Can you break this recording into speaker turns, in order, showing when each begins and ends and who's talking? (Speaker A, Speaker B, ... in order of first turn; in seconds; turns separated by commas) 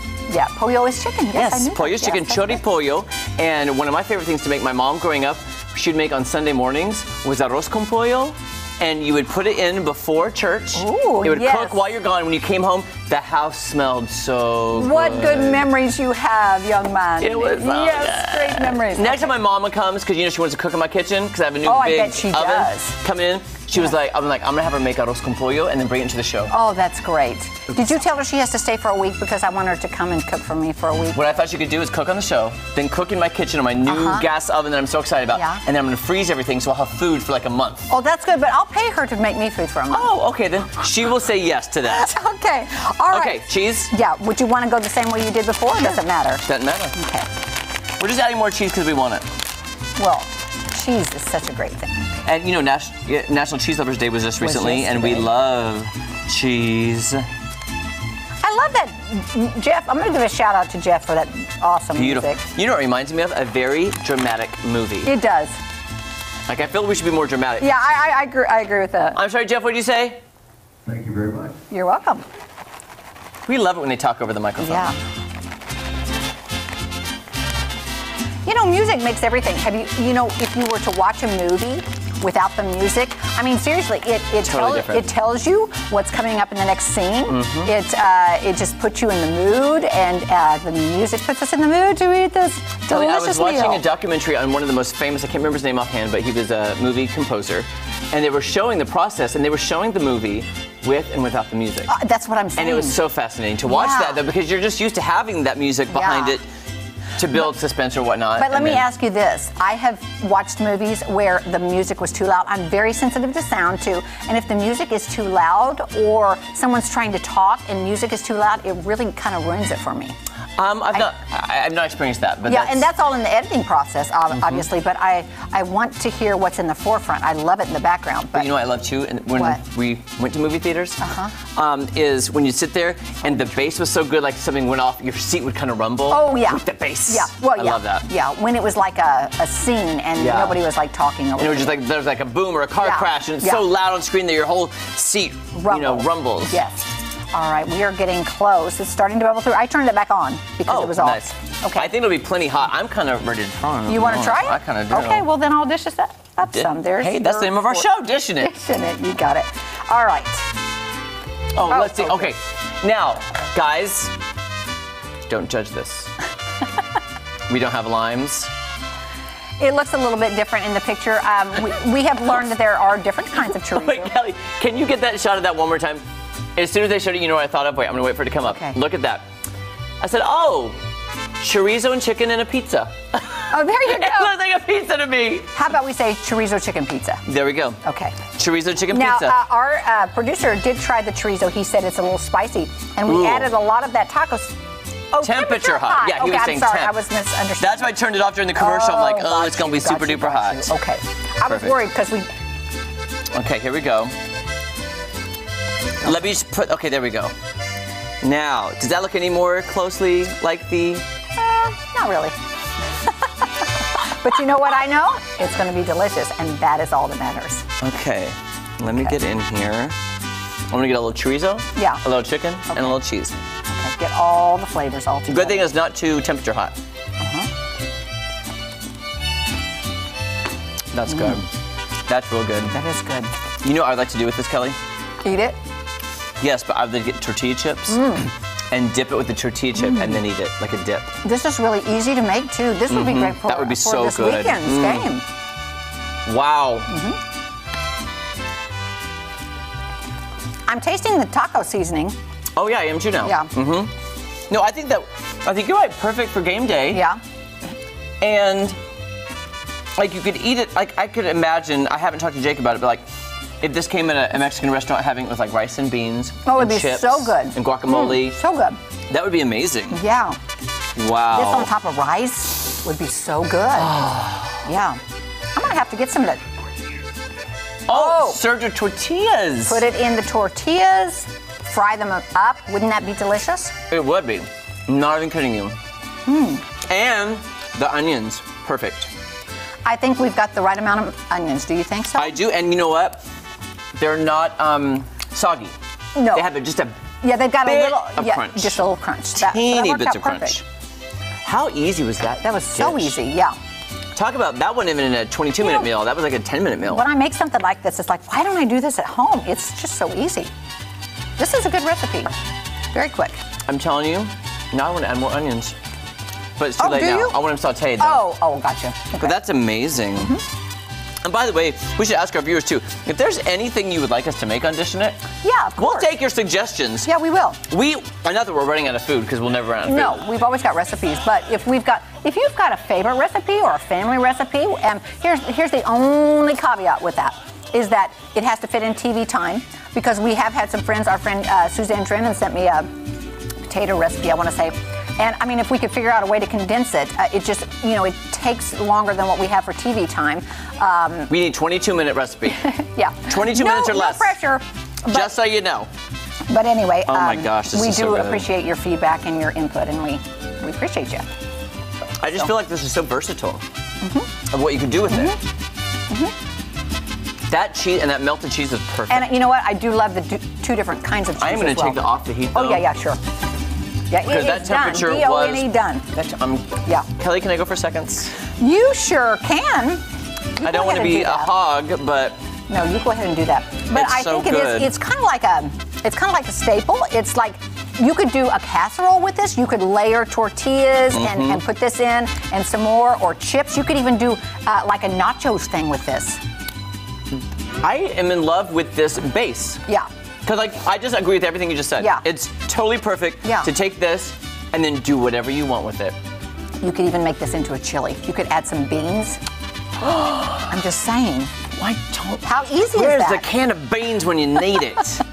Speaker A: 0.3-2.6, Speaker B: 1.3-15.7, Speaker A: 10.7-11.8, Speaker A: 14.7-19.3, Speaker B: 17.2-26.5, Speaker A: 21.6-22.9, Speaker A: 26.5-31.2, Speaker B: 31.1-37.9, Speaker A: 33.9-34.2, Speaker A: 35.3-35.6, Speaker A: 37.9-40.1, Speaker B: 39.9-42.1, Speaker A: 41.8-47.3, Speaker B: 43.1-43.9, Speaker B: 46.4-46.9, Speaker B: 48.0-49.2, Speaker A: 50.0-52.1, Speaker B: 52.2-57.3, Speaker A: 54.4-55.3, Speaker A: 58.4-62.4, Speaker B: 61.9-65.1, Speaker A: 65.0-65.6, Speaker B: 66.5-67.7, Speaker A: 67.6-69.2, Speaker B: 69.2-70.2, Speaker B: 70.9-71.5, Speaker A: 71.7-72.2, Speaker B: 73.5-74.9, Speaker A: 74.6-75.0, Speaker A: 78.5-93.8, Speaker B: 84.4-85.1, Speaker B: 87.3-87.7, Speaker B: 92.9-101.9, Speaker A: 101.9-103.0, Speaker B: 102.6-106.5, Speaker A: 103.7-104.2, Speaker A: 105.9-106.4, Speaker B: 107.2-108.8, Speaker A: 108.4-120.1, Speaker B: 120.6-122.9, Speaker A: 122.5-128.5, Speaker B: 128.3-131.0, Speaker A: 129.4-129.6, Speaker A: 131.0-131.3, Speaker B: 131.5-138.1, Speaker A: 136.1-141.8, Speaker B: 140.2-140.6, Speaker B: 141.4-146.6, Speaker A: 142.8-143.6, Speaker A: 145.6-151.9, Speaker B: 150.7-155.2, Speaker A: 153.9-157.9, Speaker B: 156.4-158.5, Speaker A: 158.4-160.4, Speaker B: 161.6-164.1, Speaker A: 161.6-162.3, Speaker B: 165.3-166.1, Speaker B: 167.5-168.5, Speaker A: 169.6-174.1, Speaker B: 173.7-176.0, Speaker B: 176.6-179.2, Speaker A: 178.4-178.8, Speaker B: 180.0-180.8, Speaker B: 181.4-185.6, Speaker A: 183.5-184.3, Speaker A: 185.6-187.2, Speaker B: 187.2-187.8, Speaker A: 187.8-188.2, Speaker B: 188.4-189.4, Speaker A: 188.9-194.5, Speaker B: 193.1-193.5, Speaker A: 195.1-197.9, Speaker B: 195.2-197.0, Speaker B: 197.6-200.7, Speaker A: 198.6-202.3, Speaker B: 201.4-201.8, Speaker B: 203.3-204.1, Speaker B: 206.0-207.3, Speaker B: 208.2-211.0, Speaker A: 211.4-212.3, Speaker A: 213.0-217.6, Speaker B: 217.8-219.9, Speaker B: 220.7-223.3, Speaker A: 221.8-222.0, Speaker A: 222.7-223.0, Speaker A: 223.7-225.7, Speaker B: 225.3-226.8, Speaker A: 227.2-227.5, Speaker B: 230.9-231.5, Speaker B: 232.1-232.8, Speaker A: 232.7-233.3, Speaker B: 233.6-234.8, Speaker A: 235.2-235.6, Speaker B: 236.4-238.2, Speaker A: 237.9-238.3, Speaker B: 238.7-241.1, Speaker A: 239.8-240.2, Speaker A: 241.2-245.2, Speaker B: 242.9-245.1, Speaker B: 246.2-246.9, Speaker A: 246.9-247.2, Speaker A: 250.7-252.2, Speaker B: 252.6-253.9, Speaker A: 253.2-253.5, Speaker B: 254.5-257.0, Speaker A: 256.9-257.2, Speaker B: 258.2-258.8, Speaker B: 260.0-263.0, Speaker B: 263.6-268.4, Speaker A: 266.4-268.8, Speaker B: 269.1-270.0, Speaker A: 269.9-270.4, Speaker B: 270.9-271.7, Speaker A: 271.3-274.0, Speaker B: 273.8-274.6, Speaker A: 274.6-275.0, Speaker A: 275.5-276.4, Speaker B: 277.9-279.8, Speaker A: 277.9-278.4, Speaker A: 279.7-283.7, Speaker B: 283.9-285.8, Speaker A: 286.2-286.6, Speaker B: 286.9-289.1, Speaker A: 289.8-292.4, Speaker B: 292.1-293.2, Speaker B: 293.9-295.7, Speaker A: 296.1-296.4, Speaker B: 296.3-296.9, Speaker A: 297.2-300.6, Speaker B: 297.6-298.8, Speaker B: 299.4-300.6, Speaker B: 301.4-303.1, Speaker A: 302.4-303.5, Speaker B: 304.1-307.0, Speaker A: 305.6-305.9, Speaker A: 306.9-310.5, Speaker A: 311.4-312.3, Speaker A: 312.9-313.4, Speaker B: 313.7-315.8, Speaker B: 316.6-318.2, Speaker A: 316.8-317.4, Speaker A: 318.0-319.3, Speaker B: 319.2-320.4, Speaker B: 321.2-325.2, Speaker A: 325.4-326.1, Speaker B: 325.8-327.1, Speaker A: 327.1-327.6, Speaker B: 327.7-330.3, Speaker A: 329.8-342.9, Speaker A: 343.6-351.3, Speaker B: 351.3-352.7, Speaker A: 352.6-355.3, Speaker B: 353.2-354.3, Speaker B: 355.1-355.9, Speaker A: 356.5-361.3, Speaker B: 357.1-358.5, Speaker B: 362.2-363.6, Speaker A: 364.0-364.3, Speaker B: 364.5-365.4, Speaker A: 365.1-365.4, Speaker B: 367.5-369.3, Speaker A: 369.1-373.2, Speaker B: 371.4-372.8, Speaker A: 374.1-376.1, Speaker B: 374.2-378.3, Speaker A: 378.6-380.0, Speaker A: 380.6-381.5, Speaker B: 380.6-382.4, Speaker A: 382.7-396.4, Speaker B: 383.9-384.9, Speaker B: 391.1-391.6, Speaker B: 397.8-399.8, Speaker B: 400.4-406.1, Speaker A: 402.0-402.2, Speaker A: 403.4-403.7, Speaker A: 406.8-409.4, Speaker B: 410.0-410.6, Speaker A: 410.5-411.5, Speaker B: 411.8-415.2, Speaker A: 412.4-413.5